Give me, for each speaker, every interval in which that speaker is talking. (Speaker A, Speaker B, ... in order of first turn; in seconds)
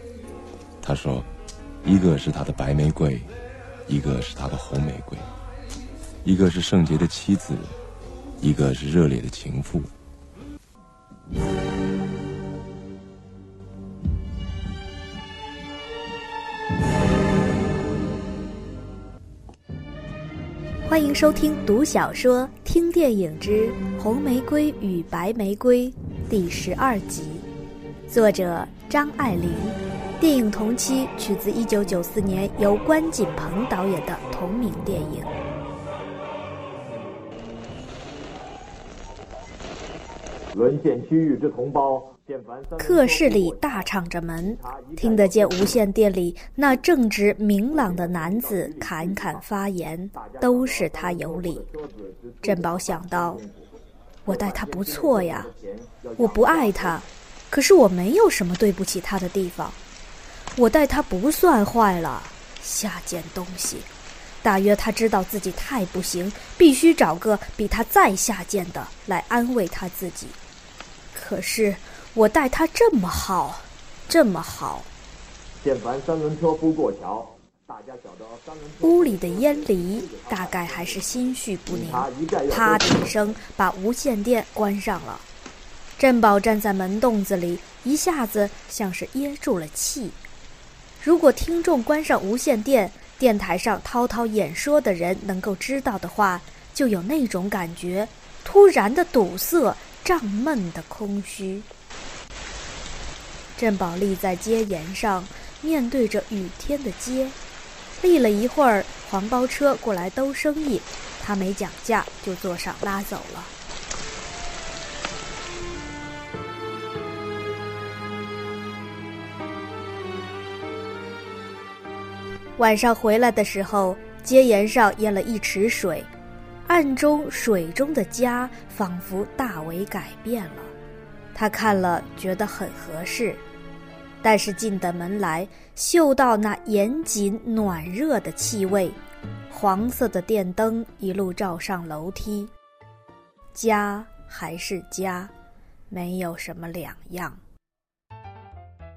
Speaker A: 0.8-1.3, 1.8-3.3, 3.9-5.3, 6.2-7.8, 8.4-9.9
Speaker B: 20.8-27.5, 28.1-35.4, 42.8-51.7, 52.4-53.4, 54.2-55.5, 56.1-59.8, 60.5-63.9, 64.4-70.4, 71.1-74.9, 78.8-85.2, 86.0-90.2, 91.0-101.7, 103.6-107.4, 108.0-113.5, 122.6-126.1, 126.7-130.7, 131.3-133.4, 134.2-139.0, 139.5-142.5, 143.5-145.3, 145.9-147.4
Speaker C: 40.5-42.8, 55.5-56.1, 75.6-78.9, 81.7-82.9